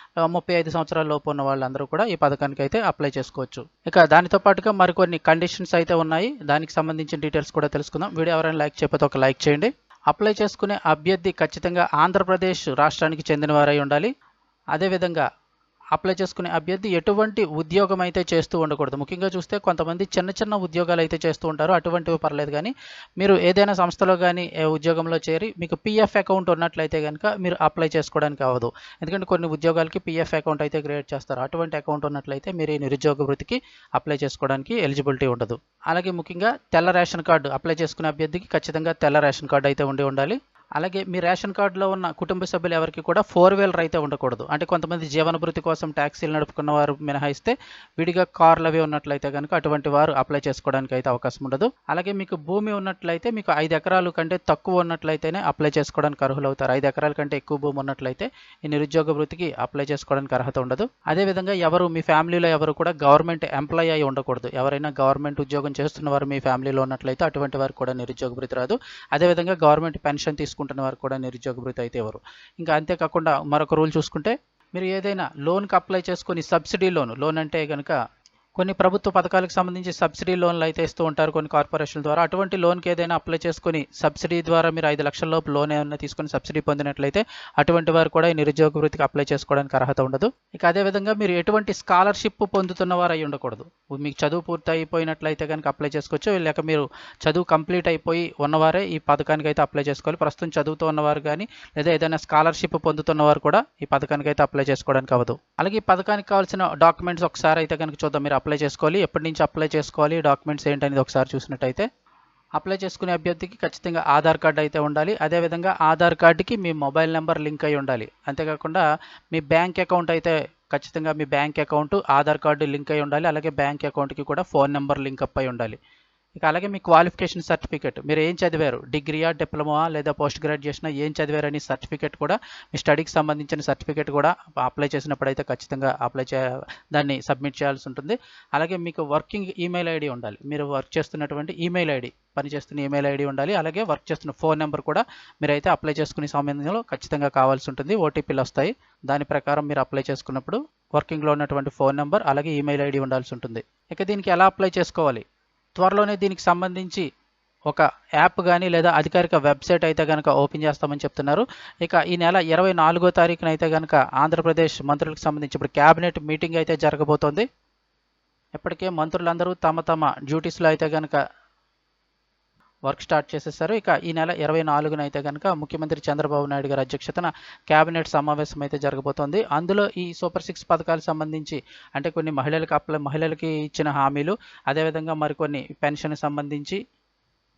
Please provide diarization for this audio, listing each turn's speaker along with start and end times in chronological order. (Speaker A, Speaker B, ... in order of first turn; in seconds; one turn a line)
Speaker A: 0.2-14.1
Speaker A: 14.7-15.2
Speaker A: 15.9-77.9
Speaker A: 78.5-111.8
Speaker A: 112.6-125.8
Speaker A: 126.4-155.2
Speaker A: 155.8-157.0
Speaker A: 157.7-167.4
Speaker A: 168.6-171.2
Speaker A: 172.9-186.8